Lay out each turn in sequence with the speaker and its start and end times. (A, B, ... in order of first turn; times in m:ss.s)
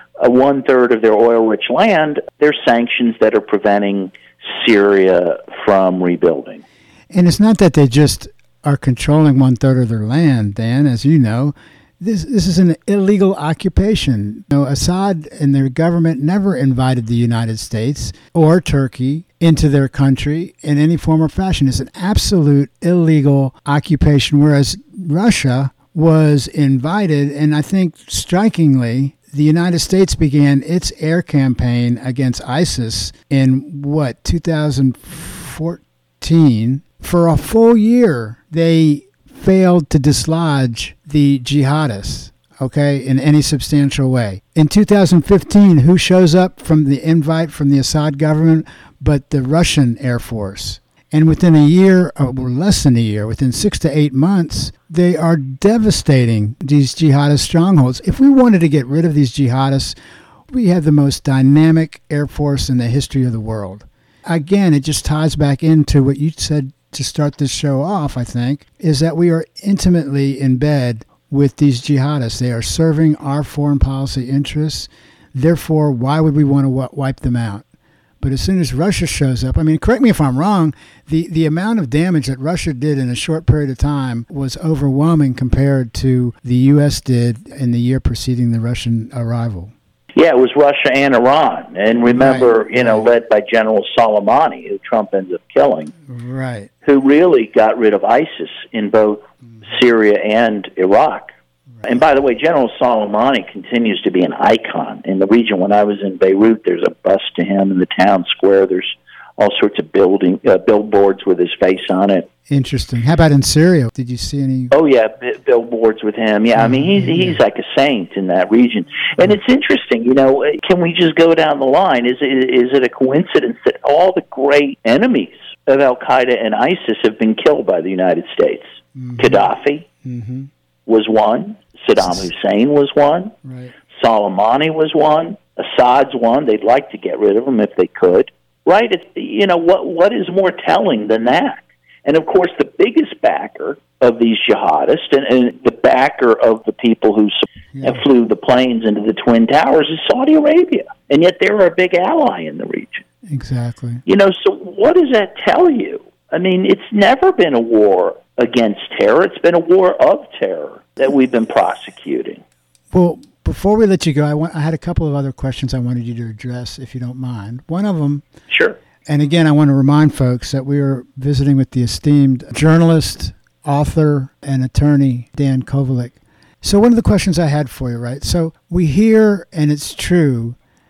0:00.2-0:06.6 A
0:07.1-1:00.0 B
1:00.5-1:17.6 B
1:18.2-1:29.7 B
1:30.2-1:35.9 A
1:32.1-1:33.1 B
1:36.1-1:36.7 B
1:36.8-1:41.3 A
1:41.8-1:52.3 A
1:52.5-1:54.7 B
1:54.7-2:09.8 A
1:56.6-1:57.4 B
2:09.0-2:09.5 B
2:10.0-2:10.5 B
2:10.9-2:13.4 A
2:13.4-2:13.7 B
2:13.9-2:33.0 A
2:27.7-2:28.0 B
2:33.2-2:34.0 B
2:34.0-2:42.4 A
2:42.9-2:48.2 B
2:48.5-2:48.8 A
2:49.0-3:00.6 B